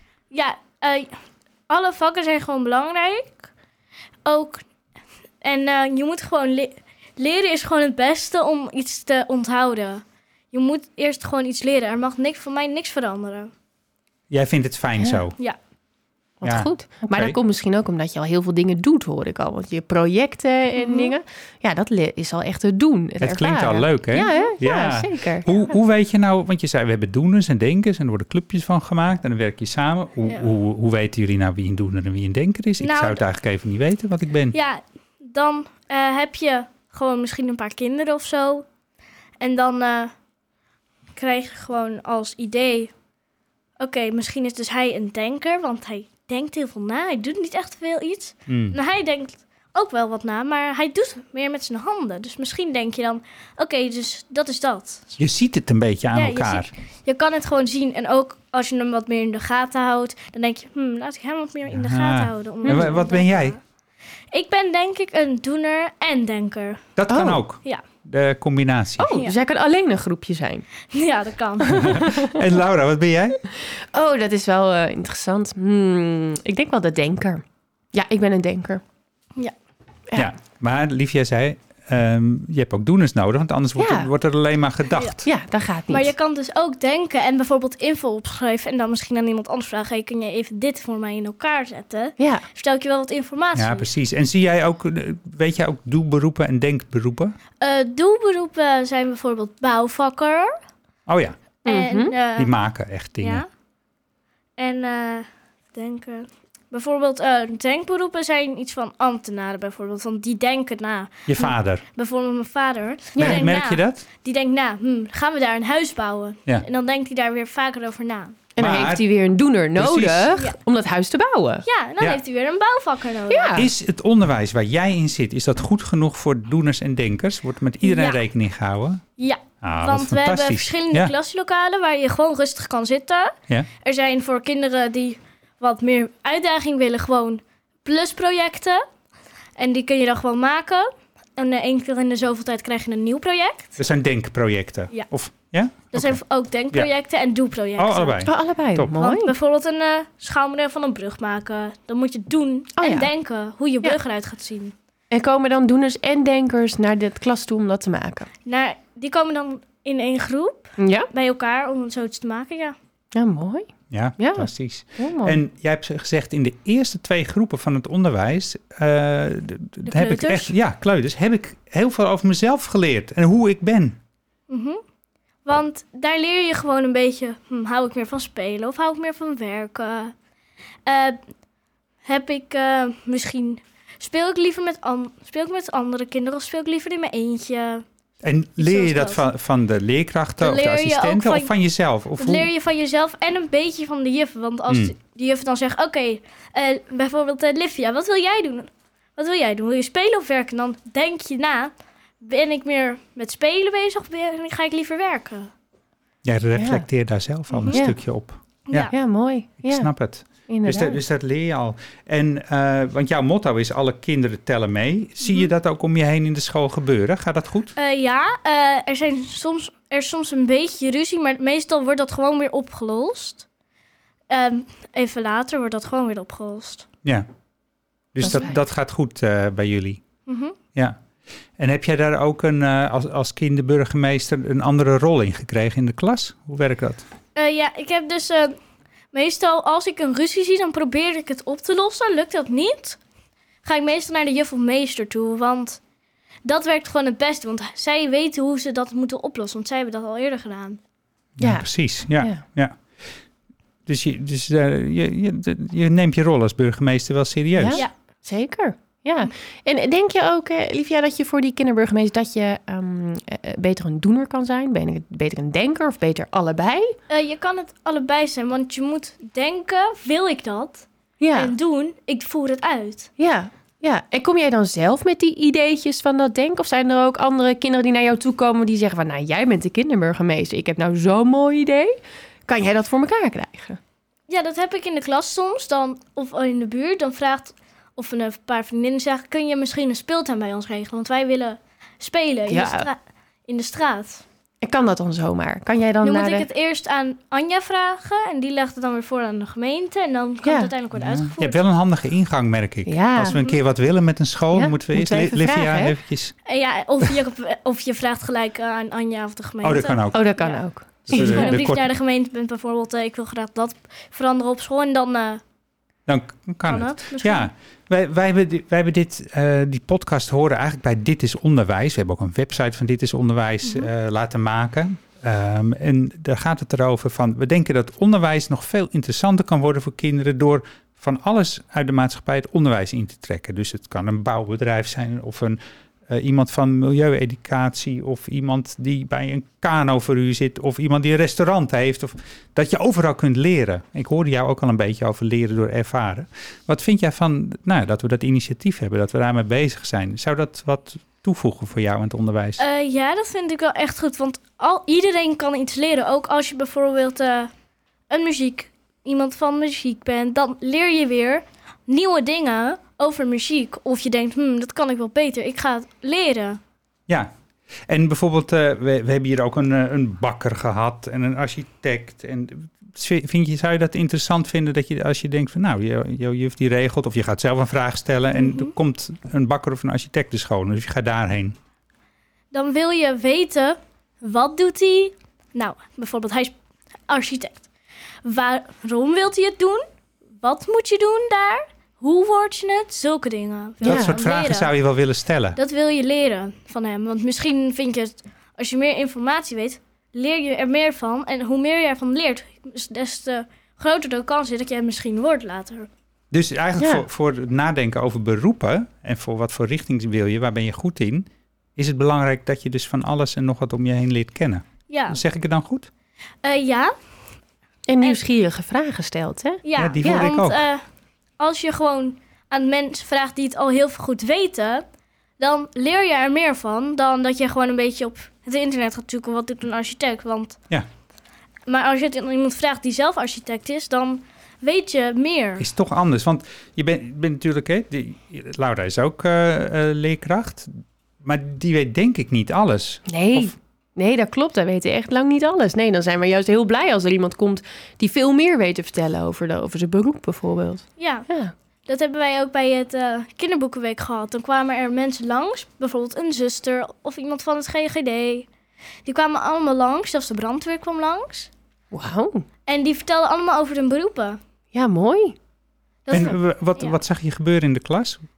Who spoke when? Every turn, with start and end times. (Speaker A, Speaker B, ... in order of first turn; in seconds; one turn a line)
Speaker A: 0.3-3.5
Speaker A: 4.2-4.6
Speaker A: 5.4-13.5
Speaker B: 14.3-15.4
Speaker C: 16.4-25.4
Speaker B: 16.4-17.4
Speaker A: 20.7-21.1
Speaker B: 23.2-34.5
Speaker A: 24.3-24.5
Speaker A: 32.8-33.2
Speaker A: 34.5-38.7
Speaker A: 39.4-40.1
Speaker A: 41.1-42.9
Speaker A: 43.8-55.1
Speaker B: 48.5-48.8
Speaker B: 55.2-56.7
Speaker A: 56.1-63.6
Speaker B: 61.7-63.5
Speaker C: 62.6-63.0
Speaker A: 64.3-66.9
Speaker B: 67.0-69.1
Speaker C: 67.1-67.4
Speaker C: 69.0-70.7
Speaker A: 70.9-72.0
Speaker C: 71.7-72.4
Speaker B: 71.7-73.4
Speaker C: 73.5-78.8
Speaker B: 80.1-85.3
Speaker C: 83.8-84.1
Speaker C: 85.2-86.1
Speaker A: 85.9-93.8
Speaker C: 92.2-92.4
Speaker B: 93.5-97.3
Speaker A: 97.6-100.5
Speaker B: 101.1-101.4
Speaker A: 101.6-102.5
Speaker C: 101.7-102.1
Speaker B: 102.3-103.4
Speaker A: 103.2-103.5
Speaker A: 104.6-118.4
Speaker B: 111.3-111.8
Speaker C: 113.1-113.5
Speaker B: 113.2-114.0
Speaker C: 118.5-121.6
Speaker B: 118.6-119.0
Speaker B: 119.8-120.3
Speaker A: 121.6-123.6
Speaker C: 123.3-123.7
Speaker B: 123.5-129.0
Speaker A: 127.8-128.2
Speaker A: 129.2-138.8
Speaker B: 129.6-131.1
Speaker A: 139.6-143.8
Speaker B: 143.8-146.9
Speaker A: 145.9-148.2
Speaker B: 147.8-148.9
Speaker C: 148.2-149.3
Speaker A: 148.9-154.7
Speaker C: 152.8-153.1
Speaker C: 155.1-158.3
Speaker A: 158.4-162.8
Speaker C: 160.8-161.1
Speaker C: 163.1-165.4
Speaker B: 163.9-174.0
Speaker A: 169.8-170.5
Speaker A: 174.5-174.8
Speaker A: 175.4-180.1
Speaker A: 180.8-181.2
Speaker A: 182.0-187.8
Speaker B: 188.2-192.5
Speaker A: 188.6-189.2
Speaker A: 190.4-191.5
Speaker A: 192.2-205.5
Speaker B: 206.2-208.9
Speaker C: 206.5-206.9
Speaker A: 207.5-207.9
Speaker C: 207.7-208.0
Speaker C: 208.9-211.0
Speaker B: 209.6-217.7
Speaker A: 215.2-215.5
Speaker A: 217.8-223.4
Speaker A: 224.3-226.8
Speaker B: 228.1-230.0
Speaker C: 228.2-228.5
Speaker A: 230.2-230.6
Speaker B: 231.6-237.0
Speaker A: 237.3-238.6
Speaker A: 239.1-243.0
Speaker A: 243.6-245.8
Speaker A: 246.4-250.8
Speaker B: 251.4-253.1
Speaker C: 251.4-252.4
Speaker B: 253.8-257.8
Speaker C: 257.6-266.9
Speaker A: 267.1-273.1
Speaker C: 271.2-271.5
Speaker C: 273.2-283.8
Speaker A: 284.3-294.2
Speaker C: 292.5-292.9
Speaker C: 294.6-296.5
Speaker A: 296.0-301.6
Speaker C: 300.4-300.7
Speaker B: 300.9-306.3
Speaker C: 302.9-303.4
Speaker A: 303.3-303.6
Speaker C: 304.5-305.9
Speaker A: 306.4-315.4
Speaker B: 309.6-310.2
Speaker C: 310.1-311.6
Speaker B: 311.1-311.9
Speaker B: 316.1-352.6
Speaker A: 316.6-317.5
Speaker A: 323.6-323.9
Speaker A: 352.6-357.5
Speaker A: 358.1-366.6
Speaker B: 367.9-381.6
Speaker A: 378.3-378.7
Speaker A: 382.5-386.5
Speaker A: 387.1-387.7
Speaker A: 388.2-389.8
Speaker A: 390.4-394.7
Speaker C: 393.8-394.2
Speaker B: 393.8-395.6
Speaker A: 395.6-405.9
Speaker B: 406.3-415.9
Speaker C: 406.8-407.1
Speaker A: 414.9-415.2
Speaker A: 416.4-416.9
Speaker C: 417.9-420.3
Speaker A: 419.6-420.8
Speaker B: 419.8-420.6
Speaker A: 421.4-424.8
Speaker A: 425.4-430.6
Speaker A: 431.7-435.6
Speaker B: 435.6-443.5
Speaker C: 443.1-451.5
Speaker A: 451.0-451.3
Speaker A: 451.9-458.5
Speaker A: 459.0-461.5
Speaker C: 461.9-462.4
Speaker A: 462.7-464.4
Speaker C: 464.7-465.4
Speaker A: 466.1-467.0
Speaker B: 466.1-468.2